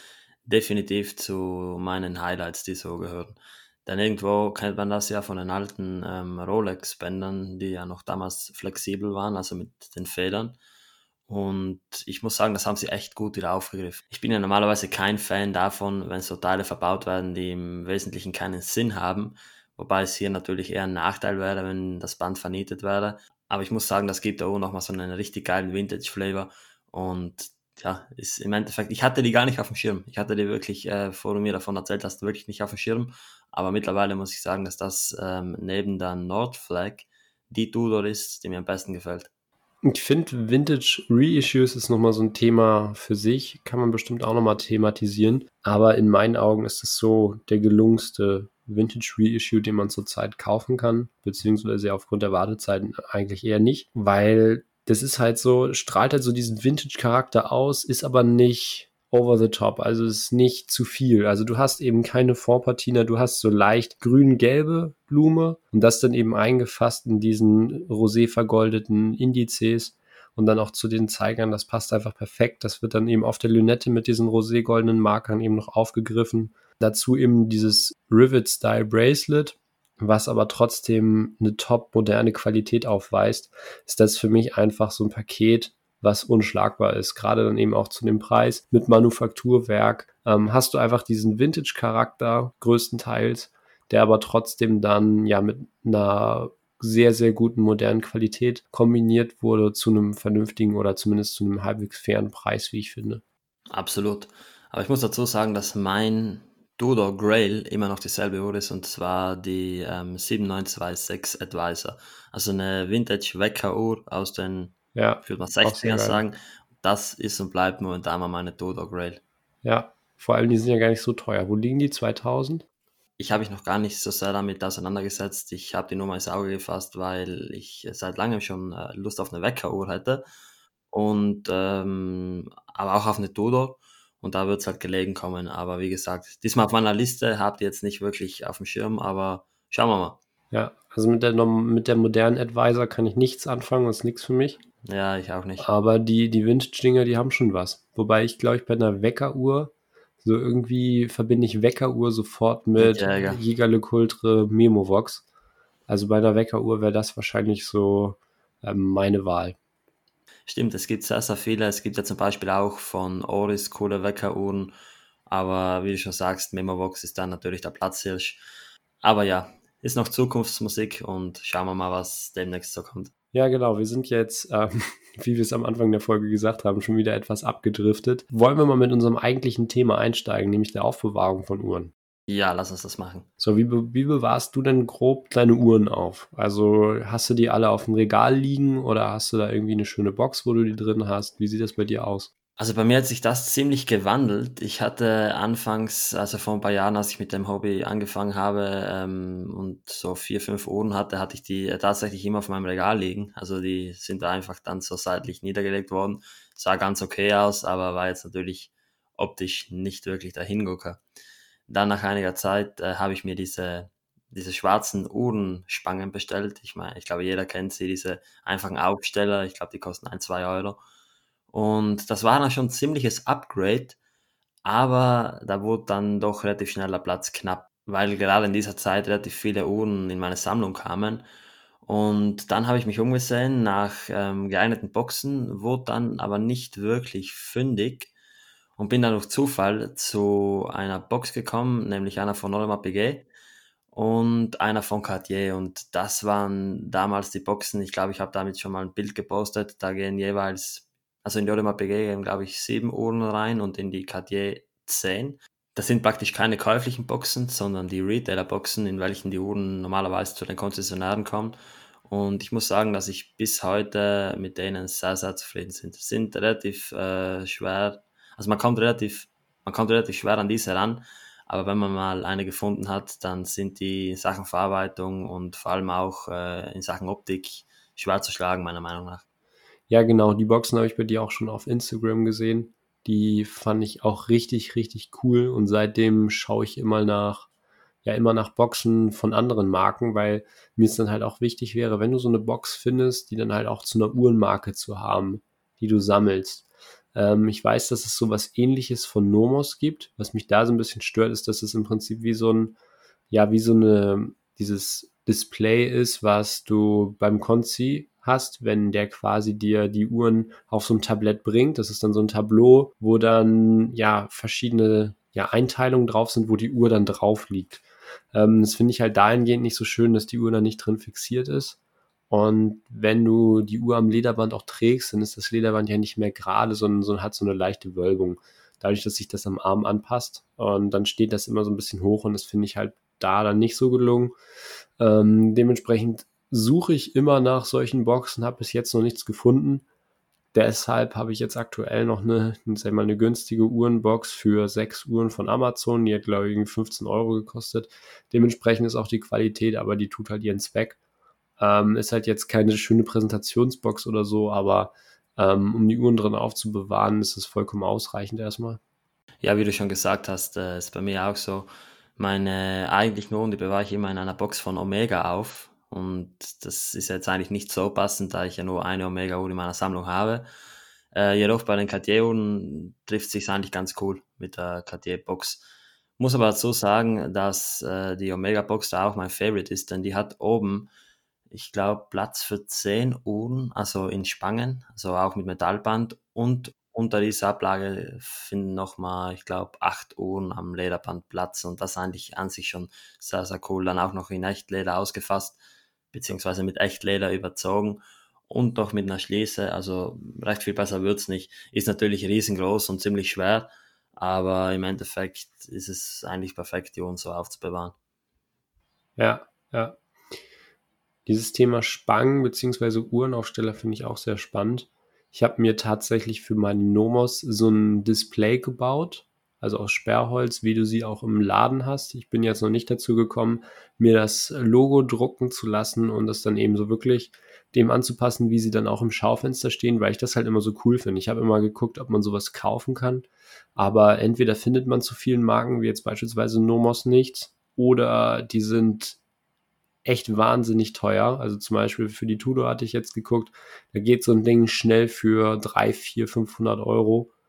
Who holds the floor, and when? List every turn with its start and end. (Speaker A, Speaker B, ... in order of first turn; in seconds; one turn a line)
Speaker A: 0.5-10.6
Speaker A: 11.3-39.3
Speaker B: 39.8-103.2
Speaker A: 103.7-119.2
Speaker B: 115.0-116.2
Speaker B: 119.6-122.7
Speaker A: 123.2-130.2
Speaker A: 130.9-140.2
Speaker B: 140.5-144.6
Speaker A: 144.8-145.7
Speaker B: 145.6-155.2
Speaker A: 152.8-153.4
Speaker B: 155.9-159.6
Speaker A: 160.5-164.7
Speaker A: 165.3-168.4
Speaker A: 169.0-173.1
Speaker B: 173.3-181.9
Speaker A: 182.3-183.3
Speaker B: 183.4-192.3
Speaker A: 192.6-211.0
Speaker A: 211.7-220.8
Speaker A: 221.5-224.0
Speaker A: 224.6-231.2
Speaker A: 231.8-238.1
Speaker A: 238.8-243.3
Speaker A: 243.9-279.2
Speaker B: 279.9-287.5
Speaker B: 288.0-302.8
Speaker B: 303.3-321.8
Speaker B: 322.3-334.3
Speaker B: 335.0-339.8
Speaker B: 340.5-351.0
Speaker B: 351.6-358.8
Speaker A: 359.4-370.5
Speaker A: 371.1-375.6
Speaker A: 376.2-380.9
Speaker A: 381.5-395.6
Speaker A: 396.1-407.9
Speaker B: 409.2-410.0
Speaker B: 411.3-439.2
Speaker B: 440.1-447.3